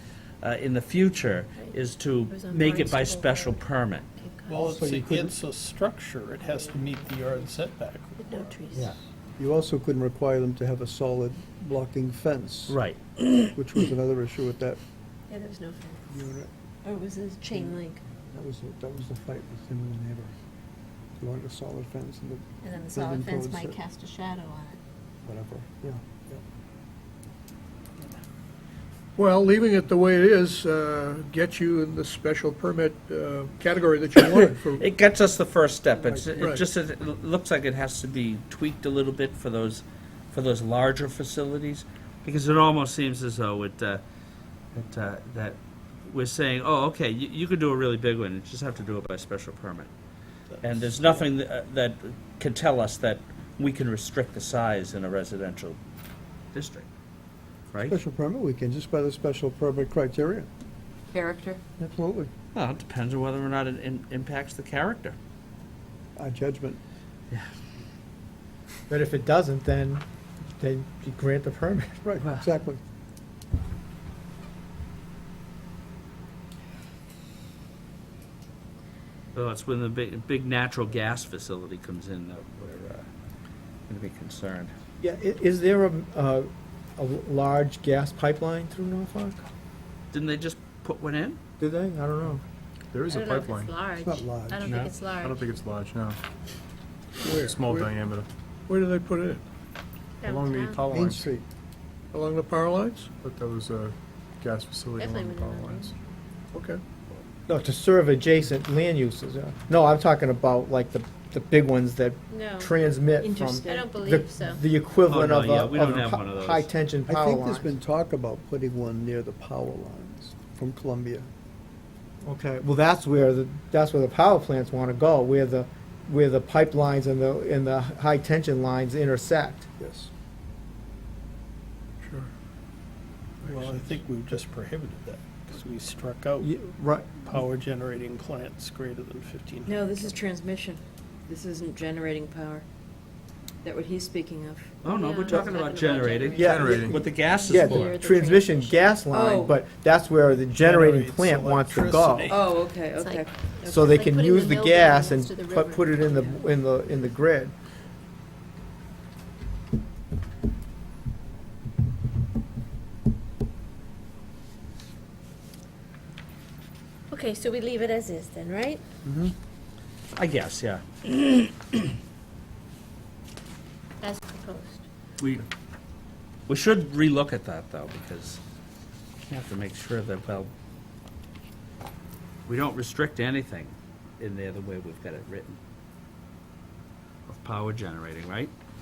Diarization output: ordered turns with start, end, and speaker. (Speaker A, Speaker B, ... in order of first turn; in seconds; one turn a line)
Speaker A: 0.4-4.0
Speaker B: 2.3-4.6
Speaker C: 4.5-8.6
Speaker D: 4.6-5.4
Speaker B: 6.4-7.1
Speaker B: 8.2-8.9
Speaker D: 9.4-12.8
Speaker A: 12.7-13.6
Speaker D: 13.5-14.8
Speaker B: 15.3-16.3
Speaker D: 16.1-16.5
Speaker B: 16.8-18.0
Speaker D: 17.5-20.3
Speaker D: 21.2-23.8
Speaker B: 22.6-24.8
Speaker D: 25.2-26.4
Speaker E: 29.2-34.8
Speaker A: 34.1-44.0
Speaker D: 36.0-36.5
Speaker E: 36.4-36.6
Speaker A: 44.8-49.9
Speaker C: 50.5-51.3
Speaker A: 50.6-55.8
Speaker A: 56.5-56.9
Speaker A: 57.7-58.0
Speaker D: 57.8-60.5
Speaker F: 61.1-61.6
Speaker D: 61.8-62.3
Speaker A: 62.5-65.2
Speaker D: 66.2-66.8
Speaker G: 68.9-72.0
Speaker D: 72.0-72.8
Speaker A: 72.2-72.5
Speaker A: 79.3-83.1
Speaker A: 83.9-84.7
Speaker G: 85.0-89.4
Speaker A: 90.1-91.4
Speaker G: 91.6-92.4
Speaker H: 92.9-93.8
Speaker B: 93.1-95.4
Speaker D: 93.9-94.8
Speaker A: 94.7-94.9
Speaker H: 95.1-96.2
Speaker E: 97.2-98.0
Speaker H: 97.3-98.3
Speaker E: 98.7-99.4
Speaker B: 100.2-100.8
Speaker H: 100.2-101.3
Speaker D: 100.9-101.5
Speaker E: 102.1-103.1
Speaker H: 103.2-105.9
Speaker B: 105.0-105.9
Speaker E: 106.5-106.8
Speaker G: 107.5-117.7
Speaker B: 112.3-112.7
Speaker F: 113.2-113.9
Speaker B: 113.7-114.6
Speaker A: 115.1-116.7
Speaker D: 117.1-121.3
Speaker G: 122.2-129.7
Speaker D: 129.8-130.1
Speaker E: 132.0-132.3
Speaker E: 133.4-133.9
Speaker C: 133.4-136.5
Speaker G: 136.4-137.2
Speaker C: 137.2-139.9
Speaker F: 139.7-142.6
Speaker F: 143.6-144.7
Speaker A: 144.8-148.0
Speaker B: 144.8-149.0
Speaker F: 146.1-146.4
Speaker G: 146.3-152.3
Speaker H: 146.4-146.9
Speaker F: 149.1-149.6
Speaker C: 150.6-152.7
Speaker F: 152.3-154.0
Speaker B: 153.0-156.2
Speaker G: 153.6-157.5
Speaker B: 167.1-168.8
Speaker D: 169.0-169.3
Speaker A: 170.2-171.9
Speaker B: 174.0-174.8
Speaker A: 175.2-175.4
Speaker A: 176.5-178.4
Speaker A: 179.2-180.5
Speaker A: 182.4-185.6
Speaker A: 187.3-188.5